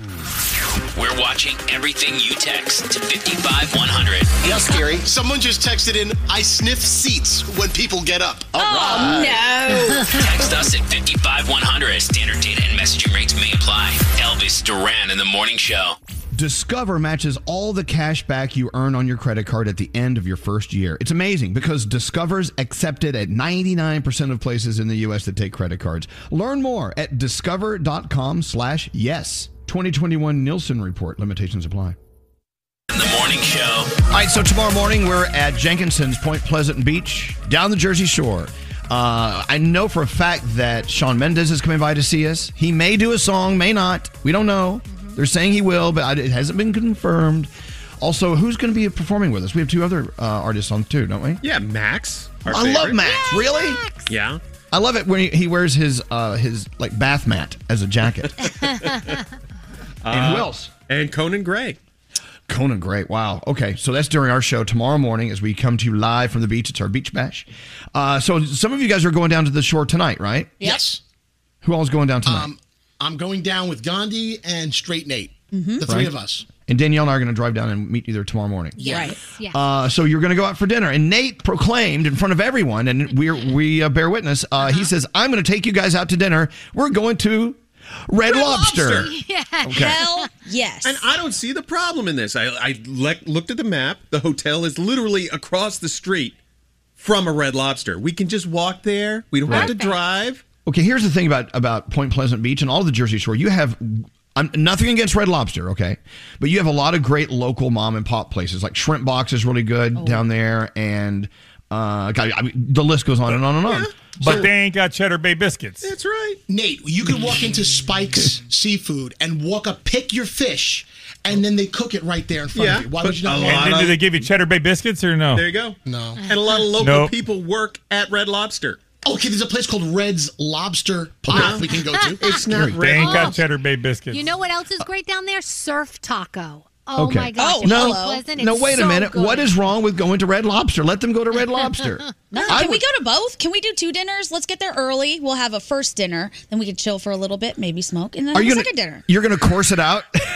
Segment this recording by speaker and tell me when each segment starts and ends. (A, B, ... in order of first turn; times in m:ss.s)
0:01.0-0:04.4 A
0:04.4-0:05.2 B
0:04.7-0:09.2 C
0:08.6-0:10.1 D
0:08.8-0:09.2 B
0:10.1-0:16.0 A
0:16.3-0:32.0 E
0:32.9-0:33.9 A
0:34.1-0:47.5 E
0:44.9-0:45.2 F
0:48.0-0:51.4 E
0:51.4-0:53.1 G
0:52.5-0:53.8 E
0:53.0-0:54.1 F
0:54.1-0:54.4 G
0:54.7-0:58.4 E
0:58.6-0:59.0 F
1:00.0-1:01.8 G
1:00.1-1:00.7 E
1:02.5-1:10.7 E
1:10.6-1:11.0 B
1:11.6-1:12.5 E
1:12.3-1:16.4 B
1:15.5-1:15.8 D
1:15.8-1:16.1 E
1:16.7-1:29.1 E
1:18.8-1:19.6 F
1:18.8-1:19.2 D
1:24.6-1:24.9 F
1:28.2-1:30.3 F
1:29.6-1:30.0 E
1:29.7-1:31.1 D
1:30.8-1:36.4 G
1:37.0-1:40.4 G
1:39.5-1:39.7 E
1:39.5-1:40.0 F
1:40.7-1:53.9 E
1:53.6-1:54.5 G
1:54.2-1:55.9 H
1:55.8-1:56.4 G
1:56.5-2:03.7 B
2:02.5-2:04.1 G
2:03.4-2:05.5 H
2:05.3-2:08.8 G
2:05.9-2:06.2 B
2:06.8-2:07.1 H
2:09.0-2:12.2 B
2:11.3-2:13.4 G
2:12.0-2:12.4 F
2:12.5-2:12.8 E
2:12.8-2:14.3 H
2:13.0-2:13.4 F
2:14.1-2:19.6 F
2:17.0-2:22.8 E
2:17.4-2:18.2 D
2:22.3-2:29.0 D
2:28.3-2:30.1 E